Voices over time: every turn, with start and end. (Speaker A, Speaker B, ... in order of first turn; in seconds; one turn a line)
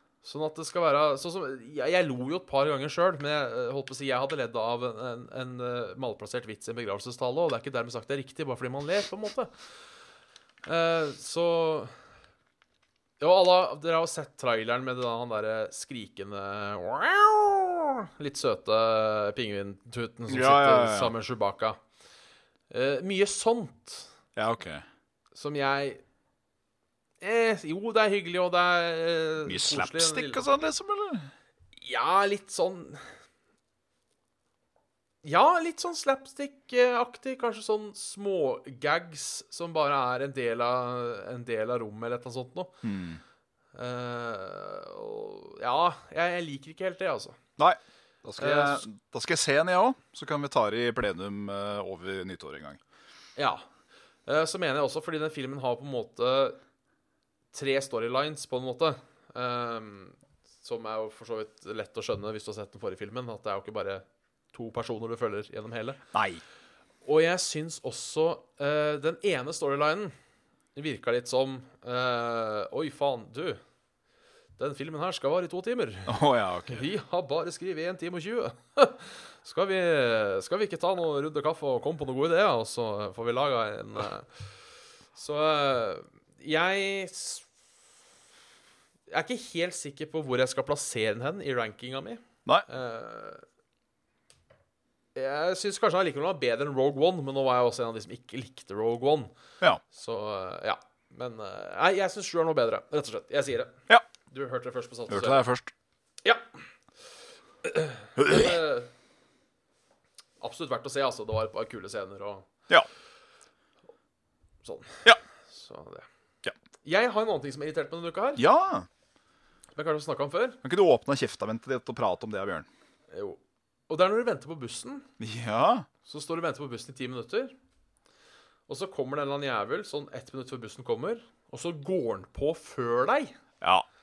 Speaker A: 0.2-9.6
Speaker A: 10.6-11.9
Speaker A: 13.2-21.8
Speaker B: 20.3-21.1
Speaker A: 22.7-24.1
Speaker B: 24.4-24.8
Speaker A: 25.3-26.0
Speaker A: 27.2-30.4
Speaker B: 29.4-31.3
Speaker A: 31.8-33.1
Speaker A: 35.2-42.7
Speaker B: 42.8-43.2
Speaker A: 43.7-47.4
Speaker B: 47.6-52.8
Speaker A: 48.4-48.8
Speaker A: 53.4-53.6
Speaker A: 54.2-56.6
Speaker A: 57.5-66.0
Speaker B: 66.1-66.4
Speaker A: 67.0-70.1
Speaker A: 70.7-73.6
Speaker A: 74.6-84.5
Speaker B: 76.1-76.9
Speaker A: 85.1-87.5
Speaker A: 89.1-93.4
Speaker A: 95.1-99.3
Speaker A: 99.9-105.4
Speaker B: 105.1-105.7
Speaker A: 106.2-106.5
Speaker A: 107.6-108.9
Speaker B: 108.2-108.6
Speaker A: 110.4-112.5
Speaker A: 114.6-116.1
Speaker A: 116.8-118.4
Speaker B: 118.4-118.9
Speaker A: 119.7-120.6
Speaker B: 120.6-122.7
Speaker A: 123.1-125.1
Speaker B: 125.2-125.9
Speaker A: 126.0-127.5
Speaker A: 128.7-133.4
Speaker B: 133.6-133.8